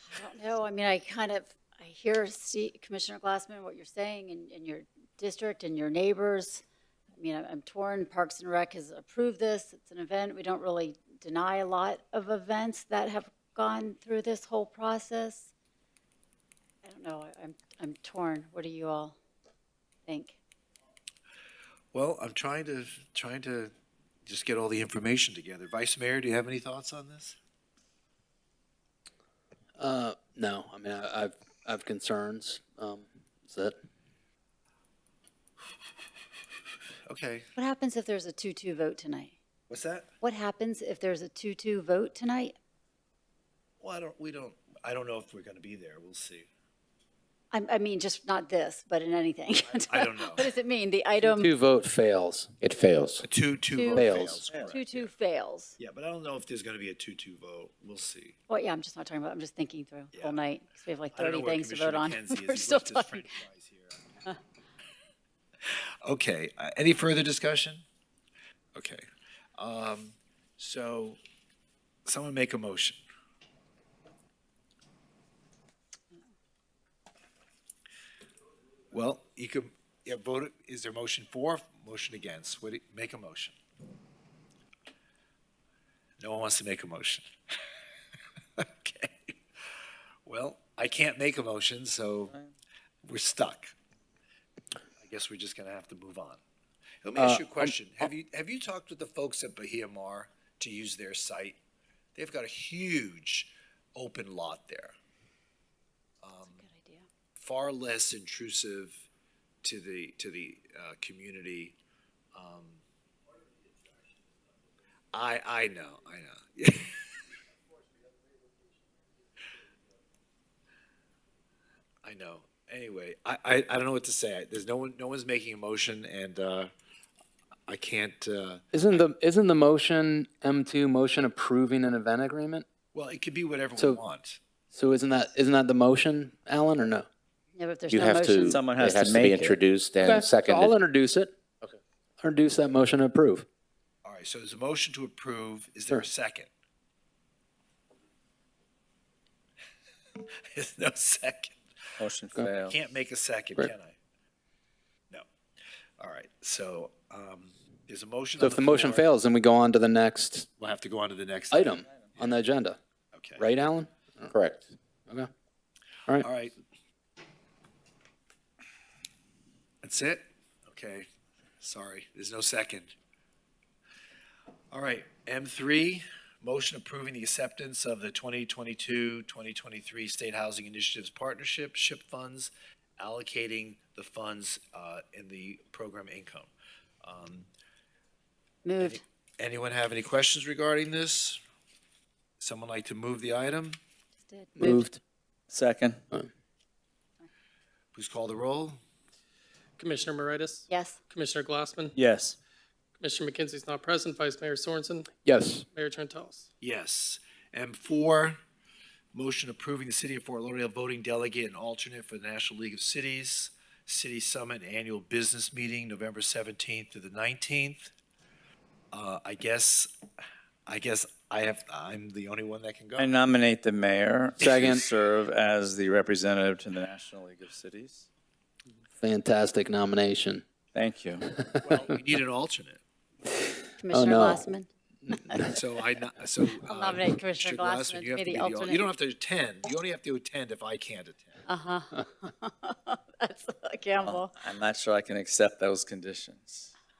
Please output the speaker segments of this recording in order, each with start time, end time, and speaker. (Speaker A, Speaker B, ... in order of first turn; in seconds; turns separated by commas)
Speaker A: 0.1-6.6, Speaker A: 7.2-15.5, Speaker A: 16.8-19.2, Speaker A: 20.1-20.4, Speaker B: 21.9-23.7, Speaker B: 24.2-27.4, Speaker C: 29.8-33.7, Speaker B: 37.1-37.5, Speaker A: 37.5-39.3, Speaker B: 39.7-40.1, Speaker A: 40.2-42.5, Speaker B: 43.8-46.5, Speaker A: 47.5-51.5, Speaker B: 49.7-50.5, Speaker C: 51.2-52.6, Speaker D: 52.6-53.2, Speaker B: 53.2-55.1, Speaker A: 53.7-55.8, Speaker C: 53.9-54.5, Speaker B: 55.8-58.4, Speaker A: 58.5-63.4, Speaker B: 60.1-60.4, Speaker B: 61.1-64.0, Speaker B: 66.0-67.8, Speaker B: 68.7-69.0, Speaker B: 69.6-71.2, Speaker B: 72.0-73.0, Speaker B: 78.9-83.6, Speaker B: 86.2-87.2, Speaker B: 88.6-89.3, Speaker B: 90.2-92.3, Speaker E: 92.3-92.5, Speaker B: 93.0-93.7, Speaker B: 95.0-96.4, Speaker B: 97.0-101.6, Speaker C: 97.2-97.7, Speaker B: 102.1-104.9, Speaker B: 106.2-106.6, Speaker A: 106.5-107.0, Speaker B: 107.3-109.0, Speaker B: 109.6-111.8, Speaker B: 112.3-112.8, Speaker B: 115.1-117.1, Speaker B: 122.0-126.7, Speaker B: 127.7-129.0, Speaker C: 128.7-132.7, Speaker B: 132.9-134.4, Speaker C: 133.8-134.0, Speaker C: 134.7-137.1, Speaker A: 137.6-138.5, Speaker D: 137.9-140.7, Speaker E: 138.3-139.6, Speaker C: 140.0-141.3, Speaker C: 142.2-143.4, Speaker B: 144.0-146.5, Speaker B: 150.2-151.6, Speaker E: 152.0-152.8, Speaker B: 152.7-153.9, Speaker B: 156.0-159.1, Speaker C: 158.4-160.5, Speaker B: 160.6-162.4, Speaker C: 161.5-162.8, Speaker B: 163.1-163.5, Speaker C: 163.4-164.3, Speaker D: 164.3-164.7, Speaker B: 166.2-166.5, Speaker B: 169.8-171.1, Speaker B: 171.6-172.9, Speaker B: 174.7-186.5, Speaker B: 187.0-187.5, Speaker A: 188.6-189.0, Speaker B: 188.8-191.4, Speaker B: 192.4-193.8, Speaker A: 194.2-194.8, Speaker C: 194.6-195.0, Speaker E: 195.5-196.0, Speaker B: 197.9-198.8, Speaker F: 199.8-201.9, Speaker A: 200.7-201.0, Speaker E: 202.0-202.4, Speaker F: 203.0-205.1, Speaker C: 205.2-205.7, Speaker F: 205.7-206.4, Speaker B: 206.6-208.4, Speaker B: 209.1-217.9, Speaker B: 218.9-219.9, Speaker B: 220.7-223.2, Speaker E: 223.0-228.1, Speaker C: 224.4-224.8, Speaker C: 229.0-230.4, Speaker E: 230.7-231.3, Speaker C: 231.3-231.7, Speaker B: 231.6-232.8, Speaker C: 233.4-234.5, Speaker A: 233.8-235.5, Speaker C: 235.1-235.5, Speaker B: 235.4-241.4, Speaker A: 236.6-238.9, Speaker A: 241.5-244.3, Speaker E: 244.0-246.7